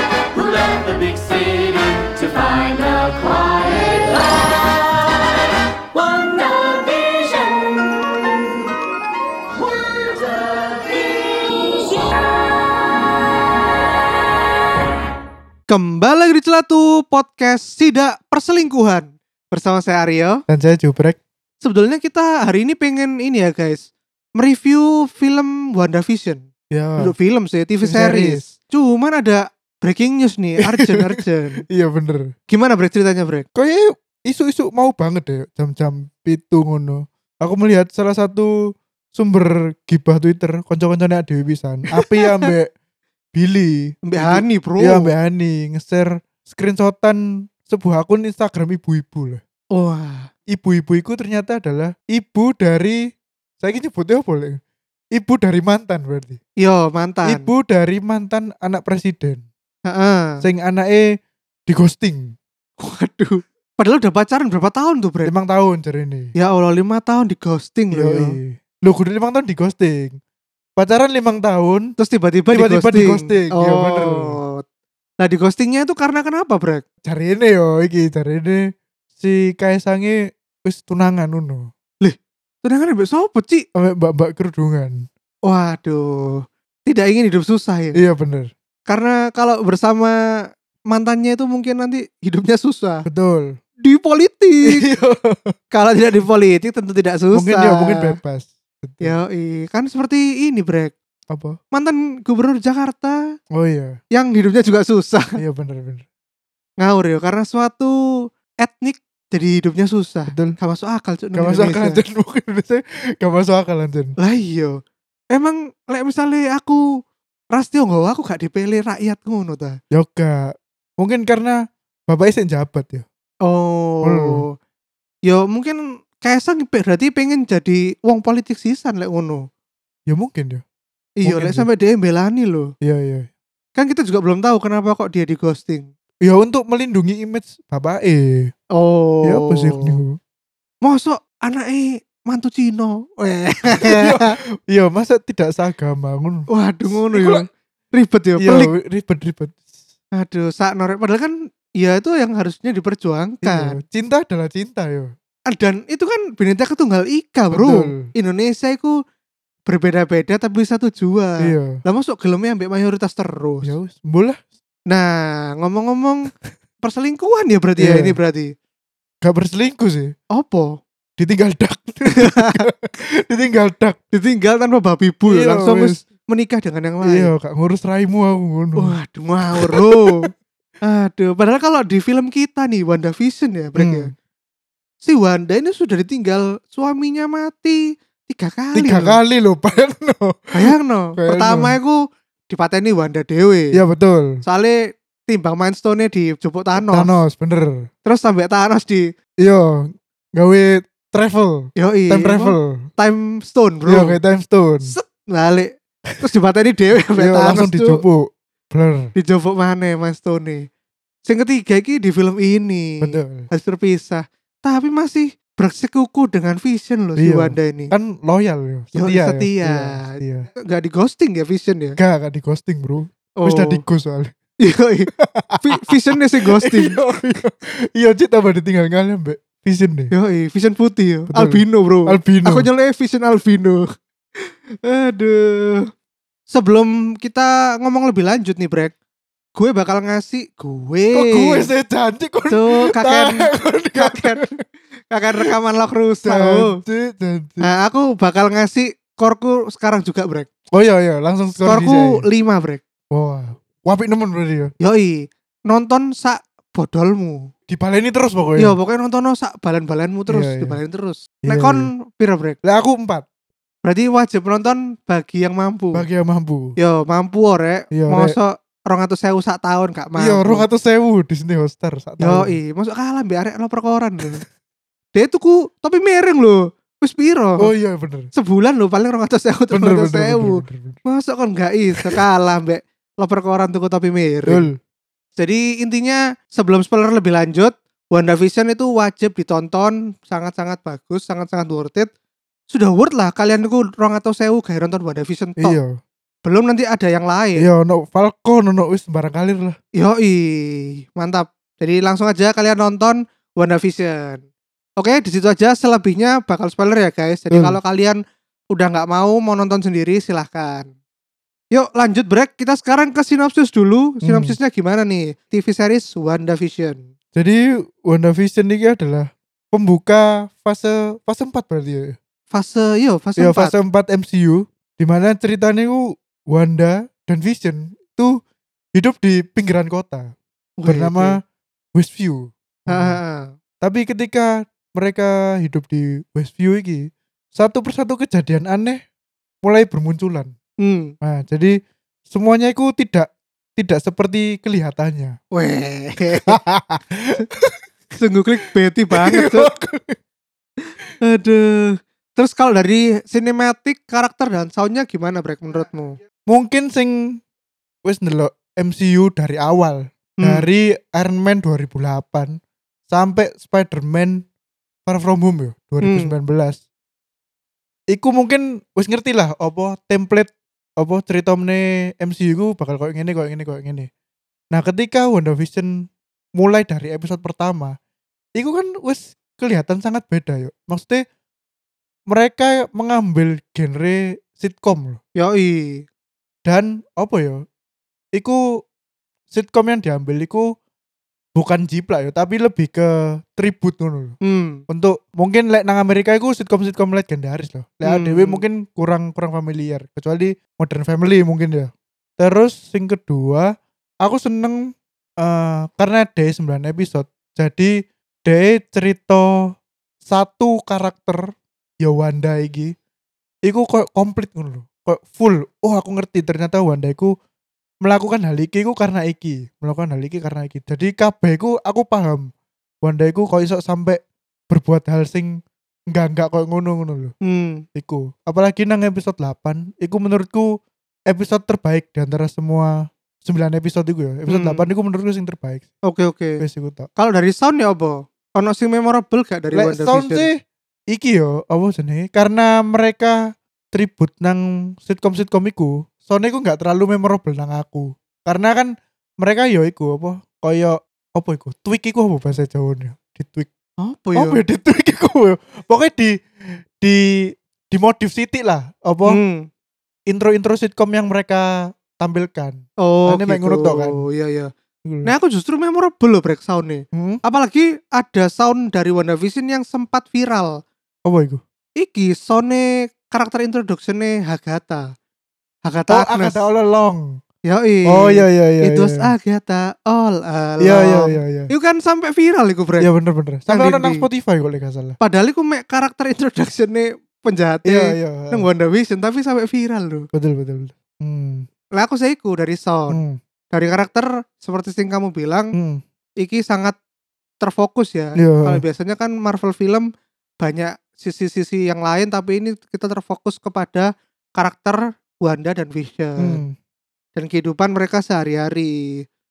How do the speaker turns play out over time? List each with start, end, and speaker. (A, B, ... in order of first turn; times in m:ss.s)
0:00.3-0:08.4 A
0:09.7-0:11.4 A
0:15.7-0:20.4 B
0:20.5-0:21.2 C
0:21.6-0:31.6 B
0:26.7-0:27.1 C
0:27.8-0:28.4 C
0:30.6-0:32.3 C
0:32.5-0:33.5 B
0:33.6-0:42.7 C
0:41.9-0:42.5 B
0:43.3-0:49.4 C
0:44.1-0:45.1 B
0:49.7-0:50.3 B
0:50.5-0:53.0 C
0:53.6-0:54.6 C
0:55.1-0:56.4 C
0:56.6-0:57.5 B
0:57.2-0:59.4 C
0:59.9-1:00.4 B
1:00.4-1:01.1 C
1:01.7-1:02.3 C
1:02.8-1:05.3 B
1:05.2-1:06.3 C
1:06.4-1:08.4 B
1:07.9-1:10.2 C
1:10.8-1:11.9 C
1:12.0-1:14.6 B
1:12.5-1:14.4 C
1:15.2-1:16.8 B
1:17.0-1:21.7 C
1:22.0-1:23.6 B
1:23.7-1:25.1 C
1:25.5-1:28.0 B
1:27.9-1:28.5 C
1:28.9-1:30.2 B
1:30.9-1:33.0 B
1:33.0-1:33.5 C
1:33.8-1:34.8 B
1:34.7-1:35.5 C
1:35.7-1:38.2 B
1:37.3-1:39.2 C
1:39.0-1:40.9 B
1:41.3-1:41.6 C
1:41.7-1:43.2 B
1:43.5-1:44.0 C
1:44.1-1:45.4 B
1:45.4-1:46.0 C
1:46.8-1:48.0 B
1:48.6-1:52.0 B
1:50.3-1:50.6 C
1:51.4-1:54.2 C
1:54.2-1:54.8 B
1:55.3-1:56.8 B
1:57.5-1:59.8 B
1:59.9-2:03.0 C
2:03.4-2:04.5 B
2:04.0-2:04.4 C
2:05.3-2:09.4 B
2:10.1-2:10.6 C
2:11.2-2:12.7 B
2:11.2-2:11.7 C
2:12.8-2:13.3 C
2:13.8-2:15.9 B
2:16.2-2:18.5 C
2:18.7-2:19.9 B
2:19.2-2:20.2 C
2:20.8-2:24.4 B
2:23.8-2:27.4 C
2:26.5-2:28.7 B
2:28.4-2:29.6 C
2:30.2-2:33.8 B
2:33.4-2:35.1 C
2:35.5-2:38.9 B
2:37.5-2:38.0 C
2:39.7-2:43.7 B
2:41.4-2:41.8 C
2:43.6-2:44.4 C
2:44.9-2:46.3 B
2:46.8-2:48.5 B
2:47.8-2:48.1 C
2:49.2-2:50.1 C
2:50.3-2:50.8 B
2:51.2-2:54.0 C
2:52.2-2:52.7 B
2:54.1-2:57.3 B
2:55.3-2:56.0 C
2:57.0-2:58.9 C
2:58.8-3:00.3 B
2:59.5-3:00.2 C
3:00.8-3:04.1 B
3:03.8-3:04.1 C
3:05.0-3:09.2 B
3:08.7-3:11.8 C
3:10.5-3:13.8 B
3:13.7-3:14.4 C
3:14.4-3:17.2 B
3:16.8-3:17.9 C
3:18.0-3:19.1 B
3:19.4-3:22.8 C
3:21.8-3:24.2 B
3:23.9-3:24.9 C
3:24.8-3:28.0 B
3:27.2-3:29.1 C
3:29.2-3:30.6 B
3:31.2-3:37.9 B
3:33.0-3:33.5 C
3:37.2-3:40.5 C
3:38.9-3:42.0 B
3:42.0-3:44.3 C
3:43.4-3:43.8 B
3:44.6-3:47.0 B
3:45.2-3:50.1 C
3:50.1-3:53.8 B
3:51.3-3:52.7 C
3:54.4-3:55.9 B
3:56.5-3:58.9 B
3:59.6-4:01.7 B
4:01.1-4:04.5 C
4:02.5-4:04.5 B
4:05.1-4:06.7 B
4:06.2-4:07.7 C
4:07.6-4:10.5 B
4:10.7-4:12.2 C
4:11.6-4:12.8 B
4:13.1-4:14.7 C
4:14.8-4:17.5 B
4:17.7-4:18.8 C
4:18.6-4:22.6 B
4:20.3-4:20.8 C
4:21.4-4:21.9 C
4:22.6-4:23.2 C
4:23.8-4:26.0 B
4:25.9-4:26.8 C
4:26.8-4:30.6 B
4:27.9-4:28.3 C
4:30.2-4:32.5 C
4:32.2-4:34.4 B
4:35.1-4:37.7 B
4:37.6-4:38.3 C
4:38.3-4:44.7 B
4:39.7-4:41.0 C
4:44.5-4:44.8 C
4:45.4-4:52.1 B
4:52.7-4:55.8 B
4:55.6-4:55.9 C
4:56.4-4:57.7 B
4:57.6-4:59.8 C
5:00.0-5:04.4 B
5:05.0-5:08.2 B
5:07.5-5:07.8 C
5:08.7-5:10.9 B
5:11.7-5:17.0 B
5:14.2-5:14.6 C
5:17.3-5:22.2 C
5:22.5-5:23.8 B
5:23.4-5:28.4 C
5:28.9-5:30.3 C
5:30.8-5:31.4 B
5:30.9-5:31.4 C
5:31.9-5:33.2 C
5:32.9-5:33.5 B
5:33.8-5:39.0 C
5:39.6-5:40.5 C
5:40.8-5:41.1 B
5:41.2-5:41.8 C
5:42.3-5:45.4 C
5:45.5-5:46.6 B
5:46.5-5:47.8 C
5:48.2-5:49.7 B
5:49.1-5:50.2 C
5:51.2-5:56.2 B
5:56.5-5:57.4 C
5:58.0-6:02.6 C
6:00.4-6:00.7 B
6:03.1-6:04.4 C
6:05.0-6:06.8 C
6:06.0-6:06.3 B
6:08.1-6:14.1 C
6:14.7-6:16.0 C
6:16.6-6:18.0 C
6:18.5-6:21.2 C
6:22.3-6:25.2 C
6:25.4-6:26.0 B
6:26.6-6:27.6 C
6:28.4-6:28.6 C
6:29.5-6:30.7 C
6:31.5-6:34.4 C
6:34.4-6:34.8 B
6:34.9-6:43.7 C
6:38.0-6:38.6 B
6:44.2-6:44.8 C
6:45.4-6:47.9 C
6:48.4-6:49.5 C
6:50.2-6:51.5 C
6:52.0-6:52.9 C
6:53.6-6:57.3 C
6:58.0-7:02.5 C
7:03.0-7:05.6 C
7:06.1-7:07.3 C
7:07.4-7:07.8 B
7:07.9-7:10.7 C
7:11.3-7:15.9 C
7:14.5-7:14.9 B
7:16.1-7:16.6 B
7:16.6-7:17.1 C
7:17.2-7:20.5 B
7:19.7-7:20.6 C
7:21.1-7:23.4 C
7:23.9-7:33.7 C
7:34.0-7:34.6 B
7:34.3-7:39.4 C
7:39.2-7:39.7 B
7:40.3-7:44.2 C
7:43.0-7:44.7 B
7:45.0-7:45.3 C
7:45.2-7:50.8 B
7:47.1-7:47.4 C
7:51.2-7:51.6 C
7:52.0-7:55.1 B
7:55.8-7:56.6 B
7:56.1-7:57.4 C
7:57.7-8:03.1 B
7:58.1-7:59.3 C
8:00.8-8:01.7 C
8:03.0-8:05.2 C
8:03.7-8:04.2 B
8:05.2-8:10.3 B
8:07.8-8:08.7 C
8:10.3-8:11.7 C
8:11.9-8:13.2 B
8:13.1-8:13.4 C
8:13.7-8:15.8 B
8:15.7-8:16.0 C
8:16.4-8:17.0 B
8:17.6-8:20.1 B
8:18.4-8:18.8 C
8:20.6-8:26.6 B
8:26.4-8:26.7 C
8:27.3-8:29.2 B